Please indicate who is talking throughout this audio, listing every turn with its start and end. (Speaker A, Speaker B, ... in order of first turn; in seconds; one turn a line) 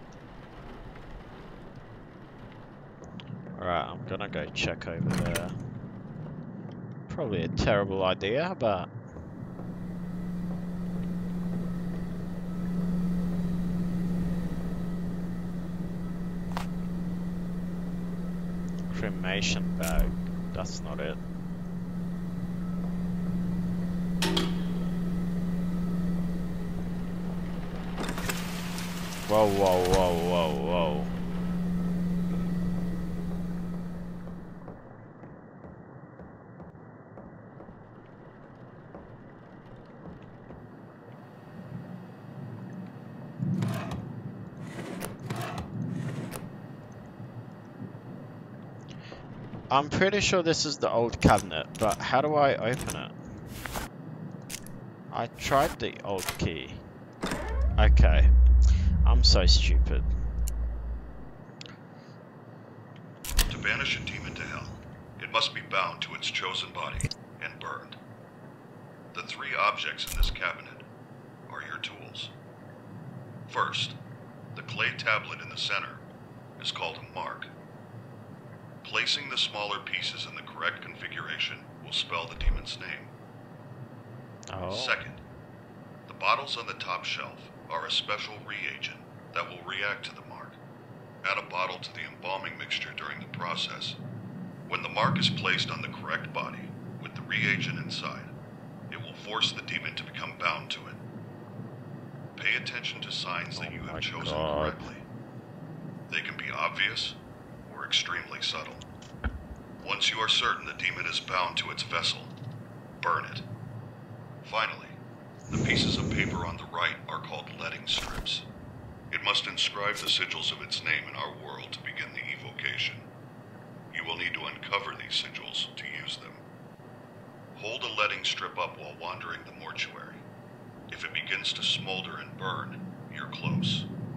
Speaker A: 3.5-5.6
Speaker A: 7.1-8.9
Speaker A: 18.9-21.2
Speaker A: 29.2-31.1
Speaker A: 49.7-53.2
Speaker A: 55.1-56.8
Speaker A: 57.8-58.3
Speaker A: 59.0-60.1
Speaker B: 63.5-68.0
Speaker B: 69.1-70.8
Speaker B: 71.5-72.3
Speaker B: 73.5-74.0
Speaker B: 74.5-76.0
Speaker B: 76.6-77.5
Speaker B: 78.8-83.1
Speaker A: 84.5-85.0
Speaker B: 84.7-85.2
Speaker B: 86.1-90.6
Speaker B: 91.2-94.0
Speaker B: 94.7-98.3
Speaker B: 98.9-101.0
Speaker B: 102.3-105.0
Speaker A: 103.5-104.9
Speaker B: 106.1-108.8
Speaker B: 109.8-112.3
Speaker B: 113.0-113.4
Speaker B: 114.4-114.9
Speaker B: 115.5-118.5
Speaker B: 119.1-123.0
Speaker B: 123.9-126.4
Speaker B: 127.5-130.2
Speaker B: 130.9-133.9